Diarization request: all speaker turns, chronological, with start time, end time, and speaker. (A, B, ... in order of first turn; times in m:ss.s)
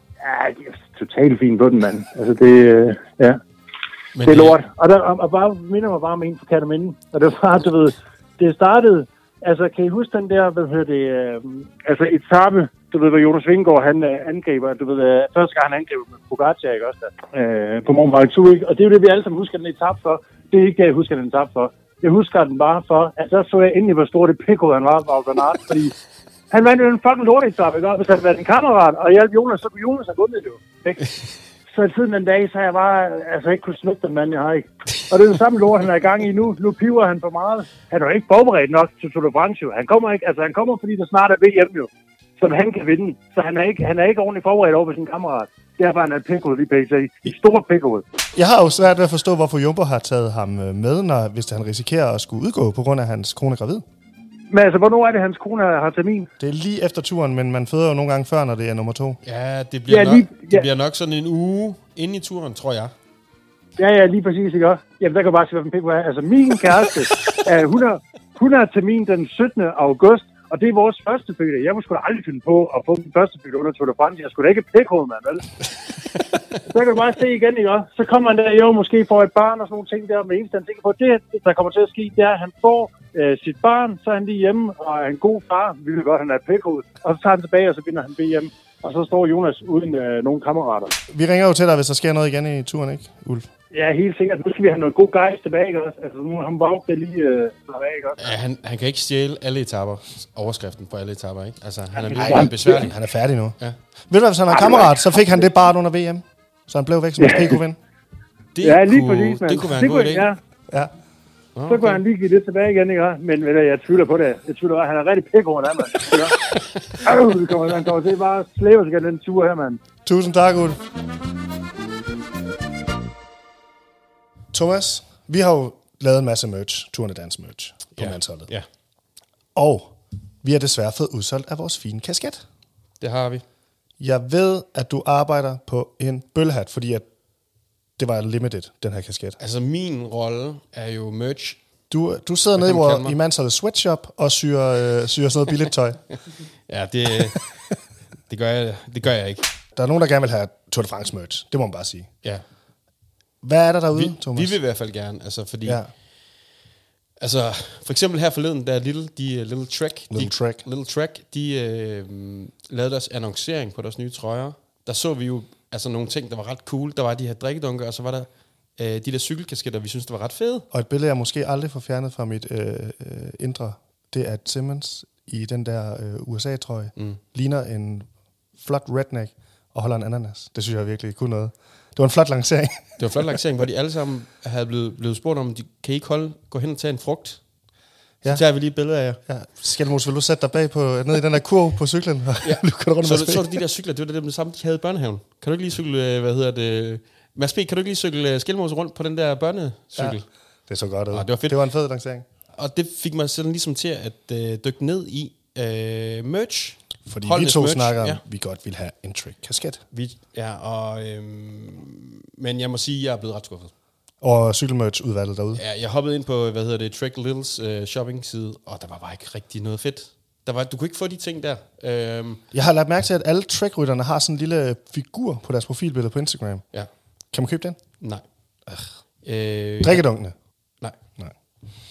0:00.2-0:03.4 A
0:04.2-0:04.6 B
0:04.2-0:25.9 A
0:26.5-0:31.1 A
0:31.7-0:48.0 A
0:48.4-0:53.8 C
0:54.5-0:56.3 A
0:56.4-0:59.2 C
0:59.2-1:02.9 B
0:59.9-1:00.7 A
1:03.8-1:15.4 A
1:16.7-1:30.9 A
1:31.1-1:33.5 C
1:33.7-1:38.3 A
1:38.2-1:43.0 B
1:42.1-1:42.5 A
1:42.2-1:43.6 C
1:44.1-1:47.8 C
1:47.2-1:47.6 A
1:48.6-1:50.3 B
1:48.6-1:50.4 A
1:51.6-1:52.0 B
1:51.7-1:56.4 A
1:57.0-1:59.8 A
2:00.0-2:00.8 C
2:04.5-2:08.5 C
2:08.0-2:08.7 B
2:09.6-2:09.9 C
2:10.4-2:12.4 C
2:13.0-2:13.4 B
2:14.0-2:17.1 C
2:18.0-2:19.4 C
2:19.4-2:21.6 B
2:21.9-2:26.0 C
2:22.6-2:23.2 B
2:26.7-2:27.6 B
2:28.3-2:29.5 B
2:29.8-2:32.1 C
2:33.4-2:34.6 C
2:33.9-2:35.8 B
2:35.6-2:35.9 C
2:37.2-2:50.7 B
2:40.1-2:40.6 C
2:50.7-2:58.1 C
2:58.6-3:03.2 C
3:03.0-3:07.4 B
3:08.2-3:09.2 B
3:09.3-3:13.6 C
3:12.4-3:20.2 B
3:20.0-3:22.2 C
3:21.1-3:21.6 B
3:22.5-3:28.2 B
3:27.1-3:29.8 C
3:29.9-3:33.7 B
3:34.2-3:35.6 C
3:35.5-3:42.4 B
3:42.5-3:46.6 C
3:47.3-3:47.8 C
3:49.2-3:50.0 B
3:49.8-3:50.3 C